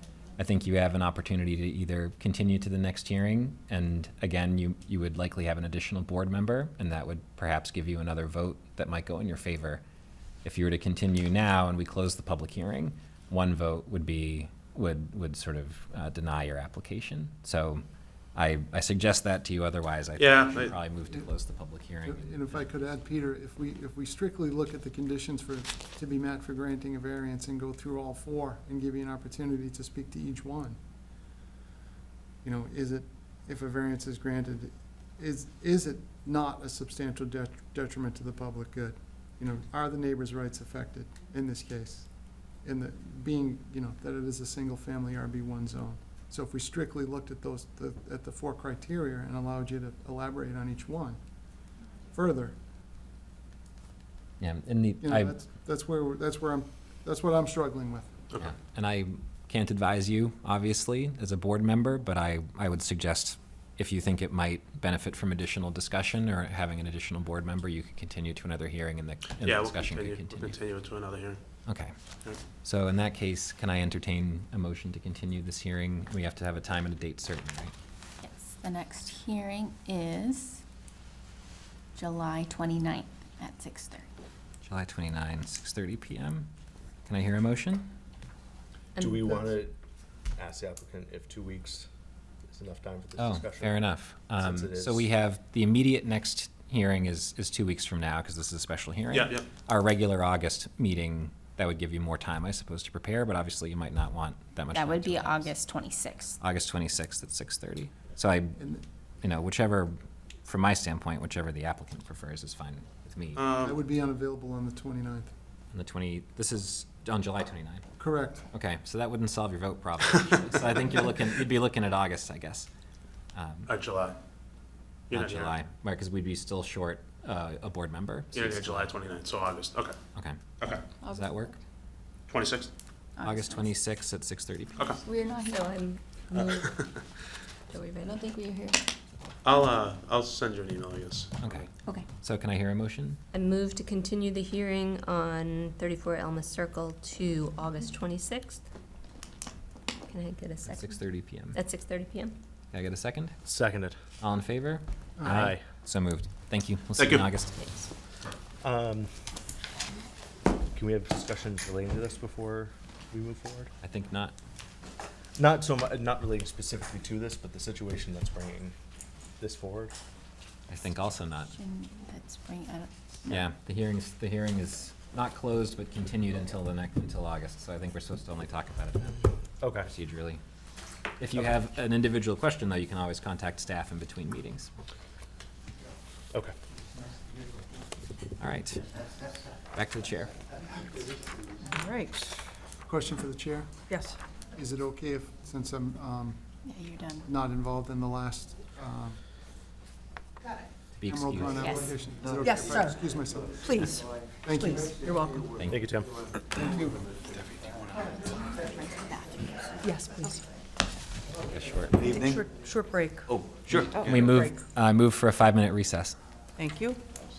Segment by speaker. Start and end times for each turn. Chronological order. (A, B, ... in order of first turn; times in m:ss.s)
0:00.4-0:09.8 A
0:10.4-0:17.8 A
0:18.4-0:22.6 A
0:20.2-0:20.8 B
0:22.0-0:30.8 C
0:32.4-0:51.2 C
0:52.1-0:52.6 C
0:54.4-0:55.4 A
0:55.0-0:58.2 C
0:58.4-1:10.6 A
1:09.4-1:11.4 B
1:11.7-1:12.0 A
1:12.6-1:17.7 A
1:18.2-1:20.6 D
1:22.0-1:24.1 D
1:24.6-1:26.5 A
1:27.1-1:27.9 A
1:29.0-1:29.5 E
1:29.0-1:29.7 F
1:30.4-1:31.9 F
1:32.5-1:35.1 F
1:33.2-1:45.5 A
1:39.1-1:39.5 B
1:44.7-1:46.4 D
1:46.4-1:48.6 A
1:48.6-1:48.8 C
1:49.2-1:53.4 A
1:53.4-1:53.8 B
1:53.6-1:55.3 C
1:55.7-1:57.8 A
1:58.0-1:58.5 C
1:58.5-2:02.7 A
2:03.3-2:03.7 A
2:03.7-2:04.2 B
2:05.1-2:05.6 B
2:05.1-2:08.9 A
2:08.3-2:10.0 B
2:10.2-2:10.4 A
2:10.6-2:10.9 B
2:11.0-2:11.5 A
2:12.3-2:12.7 B
2:13.2-2:13.7 D
2:13.2-2:14.9 A
2:15.1-2:16.8 E
2:16.3-2:17.0 B
2:17.7-2:18.8 E
2:19.4-2:21.7 B
2:21.4-2:23.2 A
2:23.3-2:28.6 E
2:30.1-2:32.4 E
2:30.7-2:31.6 A
2:32.7-2:33.4 A
2:33.4-2:34.0 F
2:34.2-2:37.5 A
2:35.4-2:35.6 F
2:37.0-2:37.3 B
2:37.6-2:37.9 E
2:38.6-2:39.1 F
2:40.7-2:43.7 F
2:43.8-2:44.3 A
2:45.4-2:48.8 F
2:49.4-2:50.0 F
2:50.7-2:51.6 A
2:51.5-2:53.0 D
2:53.3-2:59.3 A
2:59.6-2:59.9 F
2:59.8-3:00.4 A
3:01.2-3:04.7 A
3:08.4-3:08.8 A
3:09.7-3:10.3 A
3:11.7-3:12.4 G
3:12.8-3:13.9 C
3:13.9-3:14.2 G
3:14.5-3:16.4 C
3:16.6-3:17.3 D
3:17.2-3:19.2 C
3:21.0-3:21.8 A
3:21.1-3:23.8 C
3:22.4-3:23.0 G
3:23.6-3:25.5 G
3:24.4-3:24.9 C
3:25.7-3:26.2 F
3:28.6-3:29.8 D
3:29.8-3:30.4 G
3:31.5-3:32.0 A
3:32.0-3:34.6 G
3:33.6-3:36.2 A
3:36.6-3:37.0 G